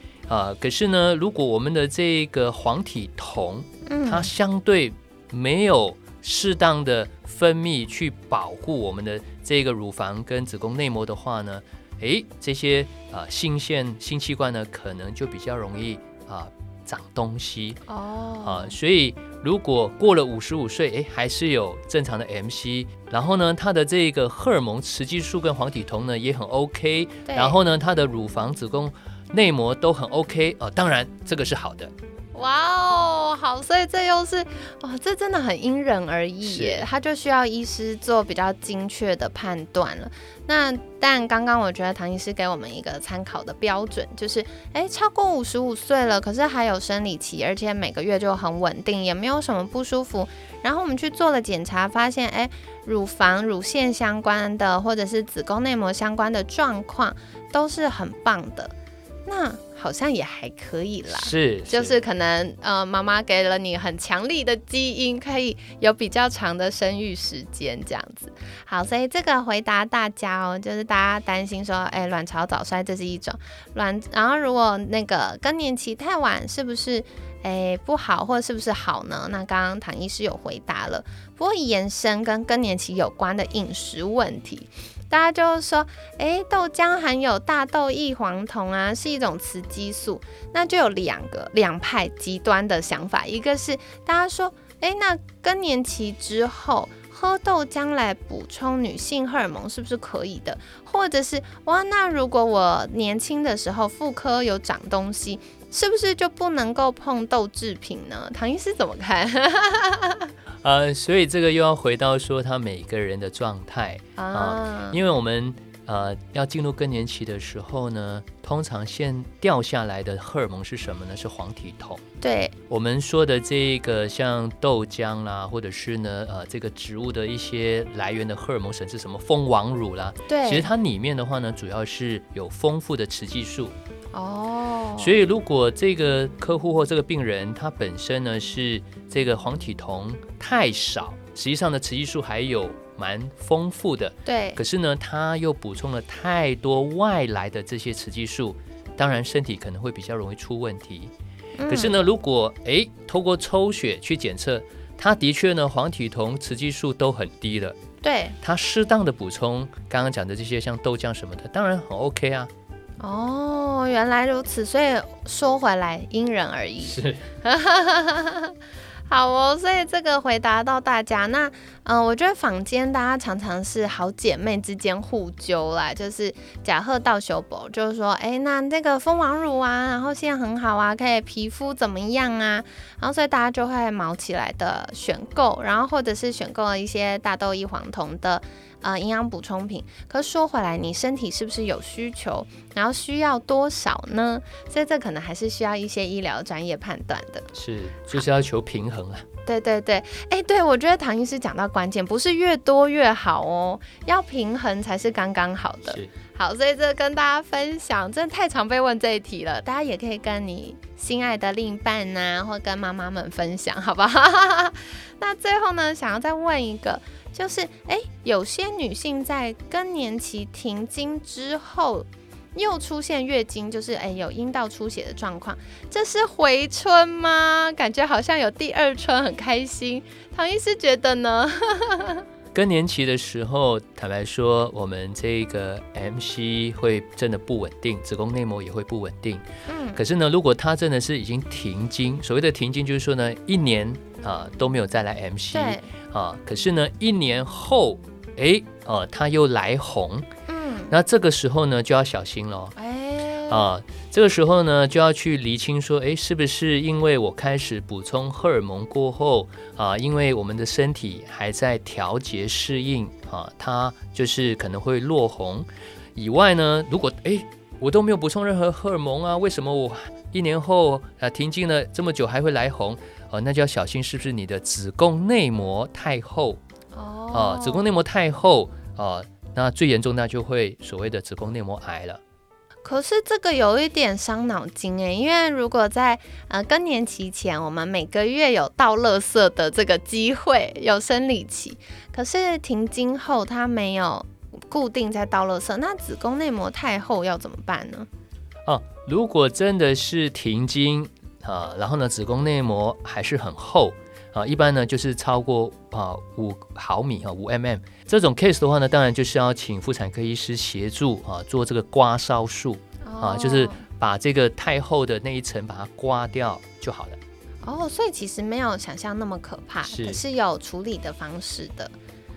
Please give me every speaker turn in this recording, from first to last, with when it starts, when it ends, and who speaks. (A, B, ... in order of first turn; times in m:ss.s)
0:00.3-0:17.8 A
0:03.8-0:04.3 B
0:17.9-0:18.8 B
0:18.4-0:31.9 A
0:27.3-0:27.6 B
0:32.3-0:58.7 B
0:36.4-0:36.8 A
0:59.2-1:50.3 B
1:01.1-1:02.0 A
1:50.6-2:02.0 A
1:54.2-1:55.0 B
2:02.2-2:02.5 B
2:02.7-2:13.7 A
2:10.3-2:10.7 B
2:14.1-2:15.1 B
2:15.0-2:31.1 A
2:24.2-2:24.6 B
2:31.6-2:32.0 B
2:31.7-2:37.8 A
2:38.0-2:38.3 B
2:38.4-2:42.5 A
2:43.0-2:48.5 B
2:46.8-2:47.3 A
2:49.1-3:17.5 B
3:17.5-3:19.2 A
3:19.4-3:52.2 B
3:52.5-3:59.4 A
3:59.7-4:00.0 B
3:59.9-4:10.2 A
4:05.5-4:05.9 B
4:10.5-4:10.9 B
4:10.9-4:12.7 A
4:12.8-4:13.7 B
4:13.5-4:36.6 A
4:36.9-4:37.8 B
4:37.3-4:42.2 A
4:42.8-4:58.1 B
4:58.6-5:17.2 A
5:13.0-5:13.8 B
5:17.6-5:21.9 B
5:19.8-5:20.2 A